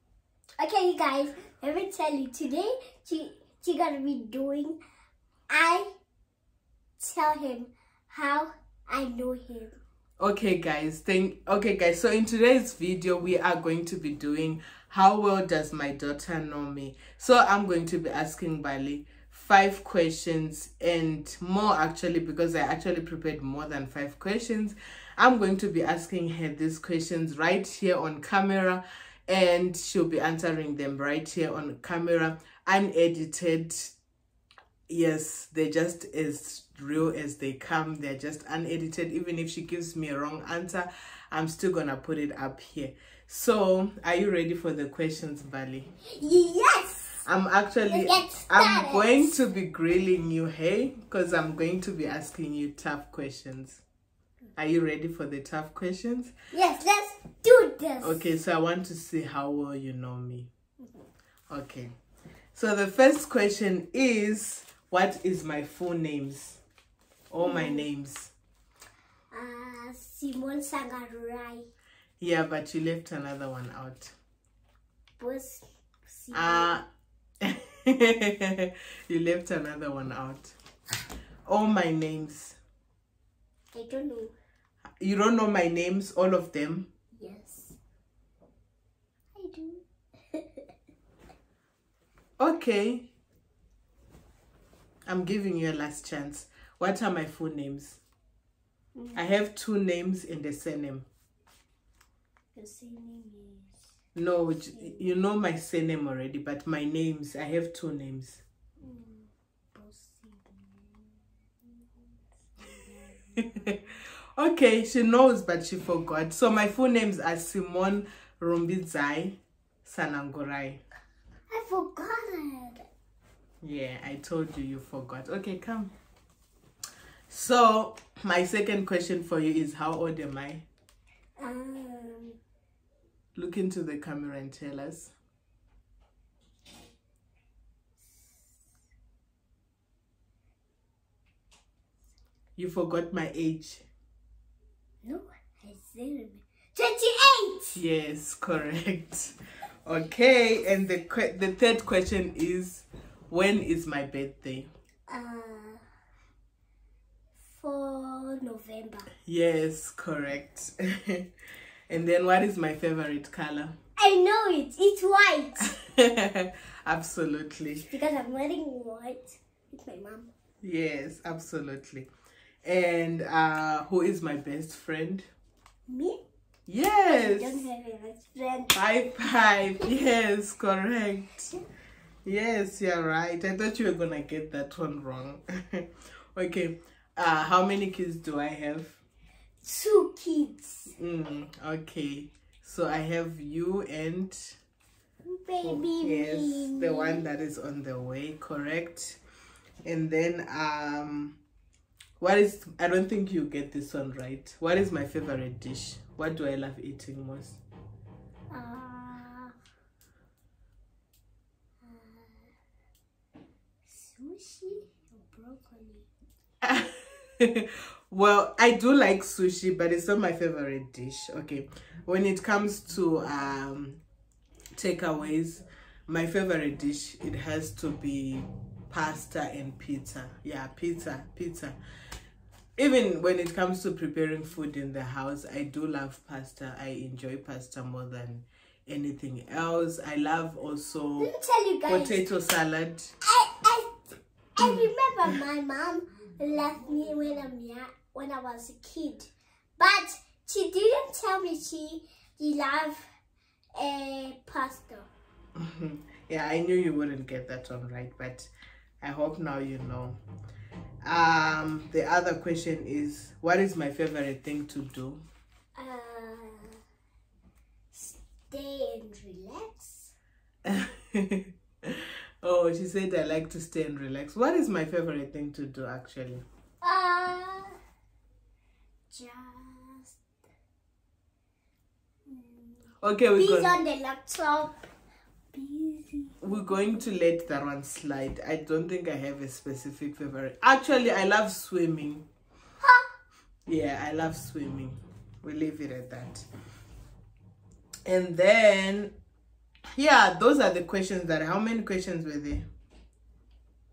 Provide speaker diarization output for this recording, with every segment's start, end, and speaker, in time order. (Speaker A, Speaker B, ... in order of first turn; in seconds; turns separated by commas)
Speaker A: 0.6-4.8, Speaker A: 5.5-5.9, Speaker A: 7.0-9.8, Speaker B: 10.2-33.9, Speaker B: 34.9-45.9, Speaker A: 46.1-47.2, Speaker B: 47.2-53.8, Speaker A: 47.9-49.3, Speaker B: 54.6-56.3, Speaker A: 56.5-58.2, Speaker B: 58.0-60.5, Speaker B: 61.5-61.9, Speaker B: 62.5-66.6, Speaker B: 67.3-68.3, Speaker A: 67.4-67.8, Speaker A: 69.3-71.7, Speaker B: 72.2-74.1, Speaker A: 75.2-76.7, Speaker B: 76.3-76.8, Speaker B: 77.4-80.5, Speaker B: 81.5-82.6, Speaker A: 83.7-84.3, Speaker B: 85.0-86.9, Speaker A: 87.1-87.8, Speaker A: 89.3-90.5, Speaker B: 92.4-93.1, Speaker B: 95.0-98.0, Speaker A: 99.0-99.2, Speaker B: 99.1-101.1, Speaker A: 102.5-103.8, Speaker B: 104.1-108.4, Speaker A: 104.4-105.1, Speaker A: 108.8-111.0, Speaker A: 112.6-113.7, Speaker B: 114.3-120.8, Speaker A: 121.5-122.8, Speaker B: 123.6-125.9, Speaker B: 127.3-130.6, Speaker A: 131.4-132.4, Speaker B: 133.3-135.1, Speaker B: 142.6-143.8, Speaker A: 145.0-147.8, Speaker B: 147.7-149.3, Speaker B: 149.8-154.7, Speaker A: 155.1-155.8, Speaker A: 157.5-159.1, Speaker B: 159.2-161.2, Speaker B: 161.9-163.7, Speaker A: 164.0-165.7, Speaker B: 165.8-167.9, Speaker A: 167.9-170.3, Speaker B: 170.6-172.1, Speaker B: 172.6-175.3, Speaker A: 175.9-176.2, Speaker B: 176.7-177.7, Speaker A: 177.1-178.8, Speaker B: 178.7-181.5, Speaker B: 182.2-189.0, Speaker A: 189.6-190.9, Speaker B: 190.9-194.6, Speaker A: 195.2-197.3, Speaker B: 195.6-199.2, Speaker B: 199.8-201.4, Speaker B: 202.2-207.6, Speaker A: 208.5-209.5, Speaker A: 211.8-212.5, Speaker A: 213.9-216.1, Speaker B: 216.6-224.0, Speaker B: 224.7-231.8, Speaker B: 232.8-241.3, Speaker A: 241.2-242.2, Speaker B: 241.9-243.1, Speaker A: 243.2-253.0, Speaker A: 253.8-255.1, Speaker B: 255.5-258.5, Speaker B: 259.0-260.2, Speaker B: 261.0-265.2, Speaker A: 265.8-266.8, Speaker A: 267.9-270.1, Speaker B: 270.6-276.4, Speaker A: 276.8-277.7, Speaker A: 279.1-280.2, Speaker A: 282.3-284.8, Speaker B: 283.0-283.8, Speaker A: 285.5-287.0, Speaker B: 286.4-292.2, Speaker A: 292.8-293.1, Speaker B: 293.7-296.4, Speaker B: 298.0-299.1, Speaker B: 300.0-302.7